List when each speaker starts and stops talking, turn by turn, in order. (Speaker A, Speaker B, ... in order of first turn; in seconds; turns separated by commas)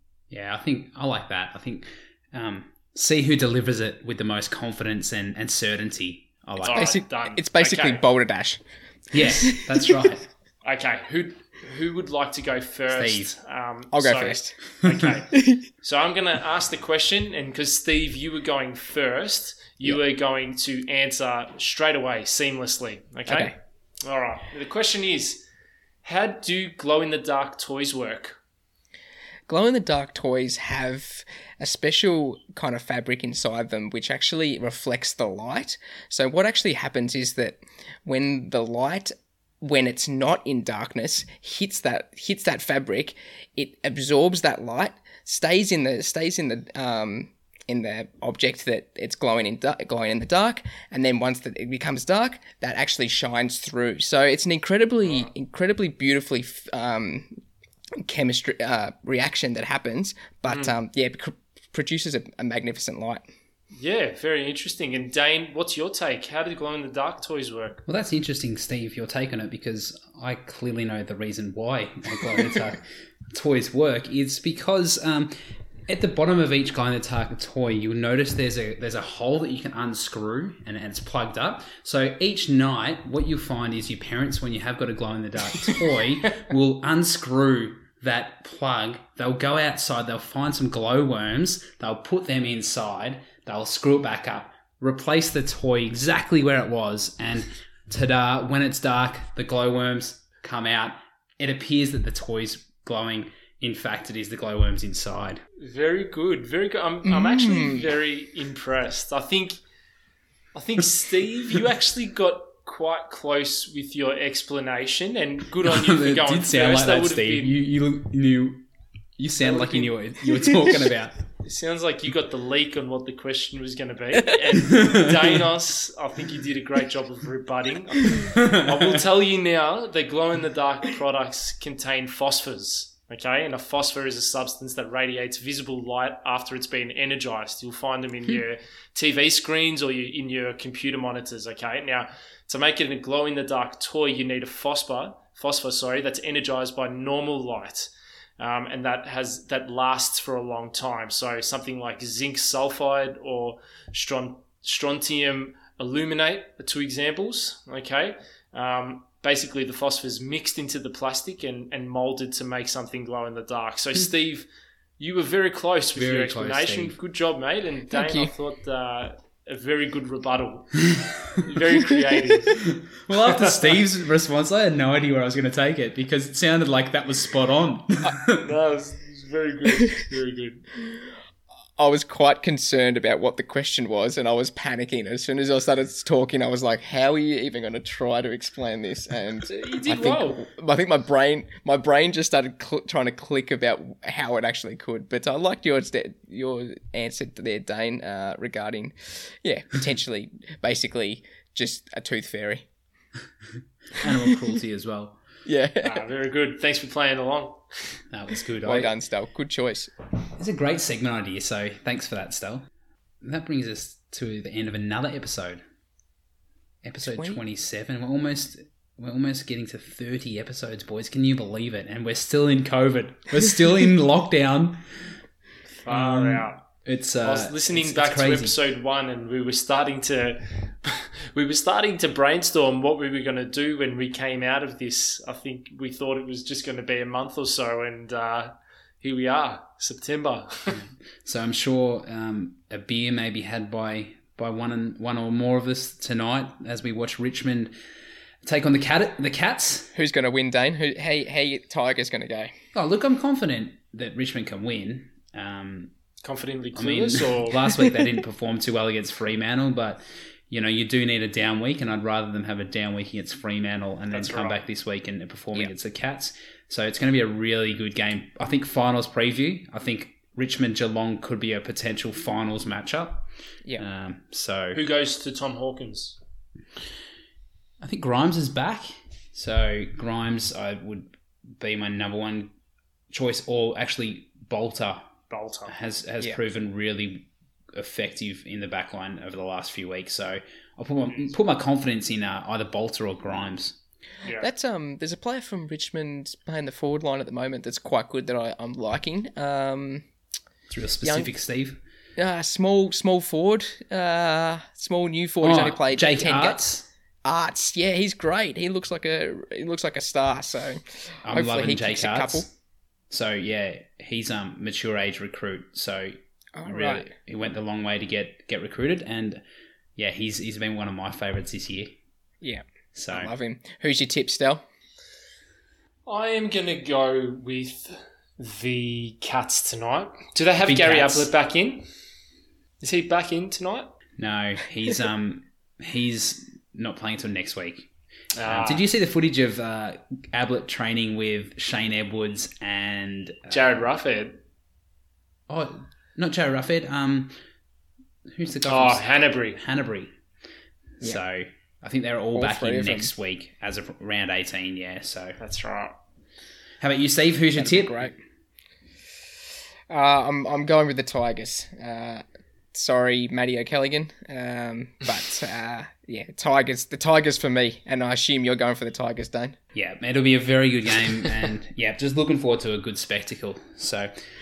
Speaker A: 0.3-7.0, Speaker B: 6.6-8.0, Speaker C: 6.7-8.6, Speaker A: 9.1-10.2, Speaker C: 9.2-9.9, Speaker B: 10.6-25.4, Speaker A: 12.9-13.3, Speaker C: 13.9-15.7, Speaker C: 23.3-23.5, Speaker B: 26.0-28.4, Speaker C: 29.5-57.4, Speaker C: 58.0-63.2, Speaker B: 60.5-60.7, Speaker B: 63.8-67.8, Speaker A: 67.9-105.4, Speaker B: 105.6-109.6, Speaker C: 107.0-107.9, Speaker B: 110.5-117.5, Speaker A: 115.6-118.6, Speaker A: 119.2-121.2, Speaker B: 119.4-120.0, Speaker B: 121.4-164.4, Speaker A: 124.6-125.4, Speaker A: 128.3-129.0, Speaker B: 165.0-172.6, Speaker A: 165.9-167.0, Speaker C: 167.9-168.3, Speaker C: 171.8-172.1, Speaker A: 172.5-178.4, Speaker B: 173.2-173.7, Speaker B: 178.4-180.7, Speaker C: 181.8-202.7, Speaker B: 189.4-190.5, Speaker A: 203.9-205.2, Speaker C: 205.4-206.0, Speaker B: 205.8-208.0, Speaker A: 208.1-208.9, Speaker C: 208.6-209.9, Speaker A: 210.4-212.7, Speaker A: 213.2-215.6, Speaker A: 216.8-224.8, Speaker C: 217.1-217.4, Speaker B: 225.8-226.6, Speaker A: 225.9-228.6, Speaker B: 227.2-240.8, Speaker A: 240.7-247.7, Speaker A: 248.4-249.9, Speaker C: 249.9-252.5, Speaker A: 252.7-255.9, Speaker B: 256.2-257.6, Speaker A: 256.7-273.2, Speaker B: 264.1-264.6, Speaker A: 273.8-274.8, Speaker B: 274.7-276.2, Speaker A: 277.8-282.5, Speaker A: 283.1-285.1, Speaker B: 285.3-285.7, Speaker A: 285.7-293.8, Speaker C: 294.4-300.1, Speaker A: 300.7-301.8, Speaker C: 301.0-301.3, Speaker C: 302.2-306.6, Speaker A: 305.4-306.9, Speaker C: 307.2-312.4, Speaker A: 311.2-312.5, Speaker A: 313.1-319.4, Speaker C: 316.5-317.1, Speaker A: 320.0-322.0, Speaker C: 322.4-324.6, Speaker A: 322.9-323.3, Speaker B: 326.1-331.8, Speaker A: 330.6-331.3, Speaker B: 332.8-333.9, Speaker A: 334.2-337.9, Speaker B: 338.3-338.9, Speaker A: 338.5-343.6, Speaker B: 343.5-344.4, Speaker A: 345.5-347.3, Speaker A: 348.3-350.1, Speaker B: 348.6-349.6, Speaker A: 351.0-355.4, Speaker C: 352.3-353.1, Speaker B: 355.4-355.9, Speaker A: 356.8-358.0, Speaker C: 357.6-358.2, Speaker C: 359.9-369.6, Speaker A: 369.7-374.2